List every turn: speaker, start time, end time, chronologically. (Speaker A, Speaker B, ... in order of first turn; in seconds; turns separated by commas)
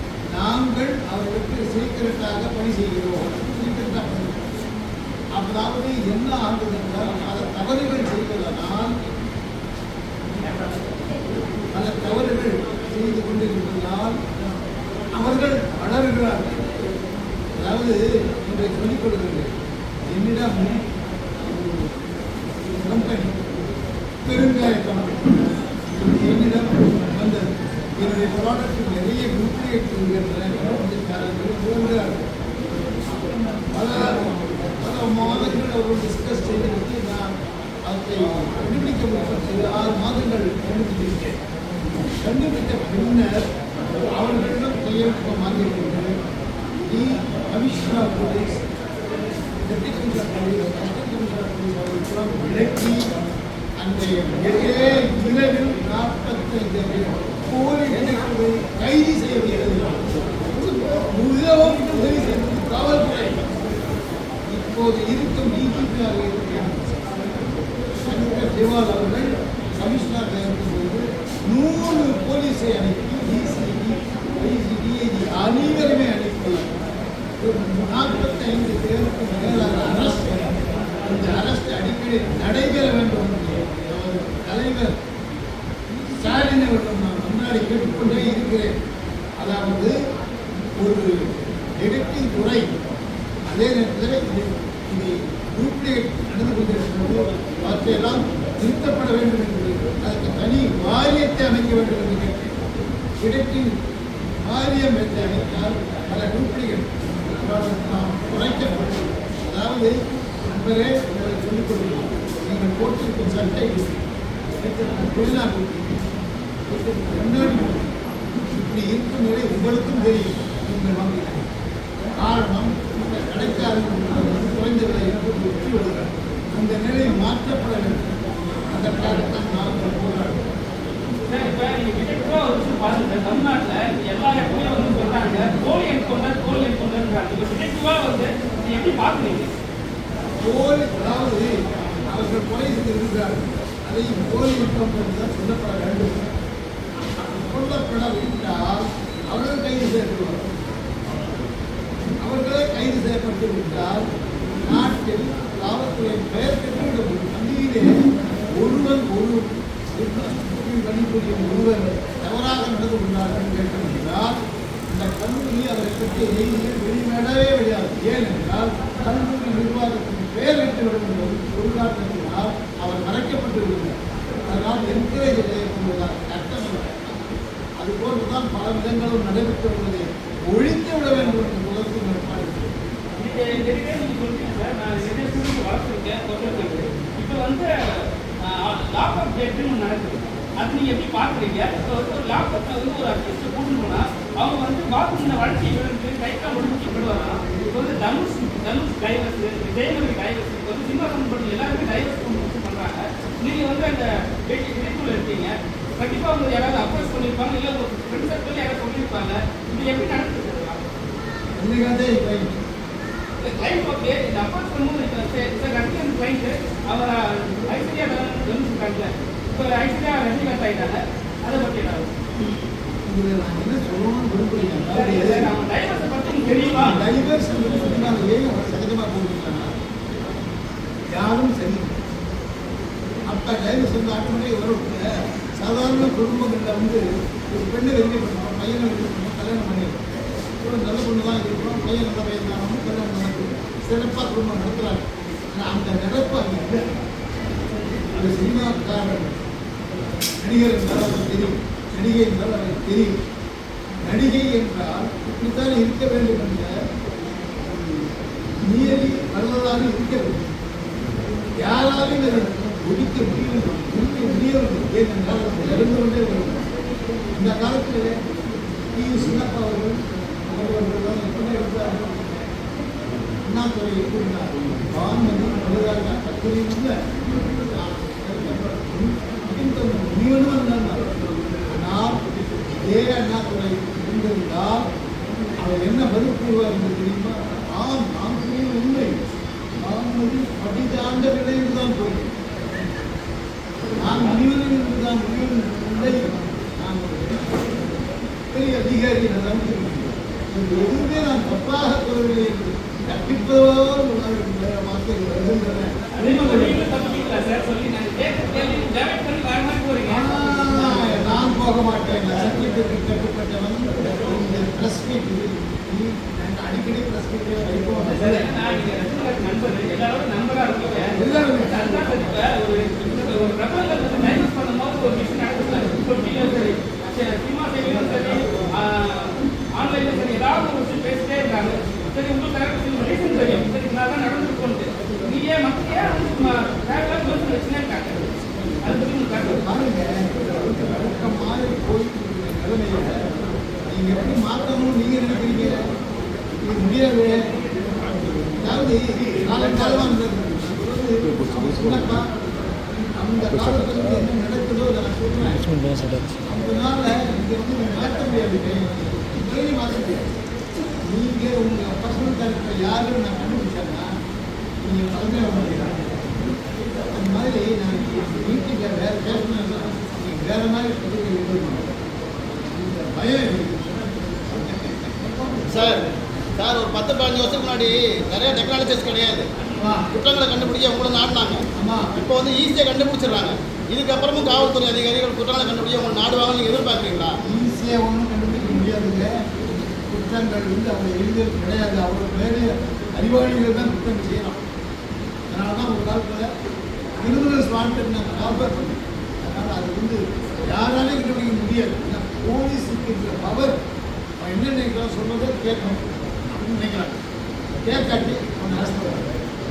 Speaker A: 0.3-4.4, Speaker A: 5.4-8.9, Speaker A: 11.7-14.2, Speaker A: 15.1-16.5, Speaker A: 17.6-19.5, Speaker A: 20.1-20.8, Speaker A: 21.4-21.9, Speaker A: 22.8-23.3, Speaker A: 24.2-25.3, Speaker A: 25.9-32.2, Speaker A: 33.7-37.3, Speaker A: 37.9-41.4, Speaker A: 42.2-43.3, Speaker A: 44.1-46.1, Speaker A: 46.8-48.6, Speaker A: 49.6-53.1, Speaker A: 53.8-60.0, Speaker A: 61.1-63.4, Speaker A: 64.5-66.8, Speaker A: 68.0-76.7, Speaker A: 77.4-84.9, Speaker A: 86.1-88.7, Speaker A: 89.4-89.9, Speaker A: 90.8-91.1, Speaker A: 91.8-92.6, Speaker A: 93.5-102.5, Speaker A: 103.2-103.7, Speaker A: 104.4-109.9, Speaker A: 110.5-114.0, Speaker A: 114.6-116.0, Speaker A: 116.7-117.9, Speaker A: 118.5-121.5, Speaker A: 122.2-128.1, Speaker A: 128.7-130.4, Speaker B: 131.3-139.5, Speaker A: 140.4-141.6, Speaker A: 142.1-146.2, Speaker A: 147.2-150.4, Speaker A: 152.2-154.1, Speaker A: 154.7-158.0, Speaker A: 158.6-164.4, Speaker A: 164.9-173.9, Speaker A: 174.5-177.2, Speaker A: 177.8-182.7, Speaker B: 183.2-210.8, Speaker A: 211.6-212.6, Speaker B: 213.4-222.1, Speaker A: 223.1-225.5, Speaker B: 224.9-227.0, Speaker A: 226.7-229.7, Speaker A: 231.1-232.0, Speaker A: 233.3-246.8, Speaker A: 248.1-249.3, Speaker A: 250.4-253.1, Speaker A: 254.1-256.7, Speaker A: 258.6-260.4, Speaker A: 261.6-266.6, Speaker A: 267.3-268.1, Speaker A: 268.9-272.1, Speaker A: 273.5-281.1, Speaker A: 281.7-282.2, Speaker A: 282.7-284.9, Speaker A: 285.6-289.1, Speaker A: 289.8-292.3, Speaker A: 294.0-297.8, Speaker A: 298.5-306.8, Speaker B: 306.1-311.2, Speaker A: 310.1-318.5, Speaker B: 318.0-338.2, Speaker A: 321.1-321.7, Speaker B: 338.8-339.6, Speaker A: 339.6-343.1, Speaker A: 343.9-345.8, Speaker A: 346.6-347.3, Speaker A: 348.6-352.3, Speaker A: 352.9-355.7, Speaker A: 356.4-360.2, Speaker A: 361.0-364.1, Speaker A: 364.9-366.0, Speaker A: 367.1-371.9, Speaker A: 372.7-374.0, Speaker C: 374.6-375.1, Speaker A: 375.3-376.0, Speaker C: 375.7-376.1, Speaker C: 376.6-379.5, Speaker A: 379.8-380.1, Speaker C: 380.1-381.6, Speaker A: 381.7-382.1, Speaker C: 382.1-387.4, Speaker A: 387.4-389.3, Speaker A: 390.1-394.6, Speaker A: 395.5-396.5, Speaker A: 397.2-403.7, Speaker A: 404.4-407.1, Speaker A: 407.8-409.3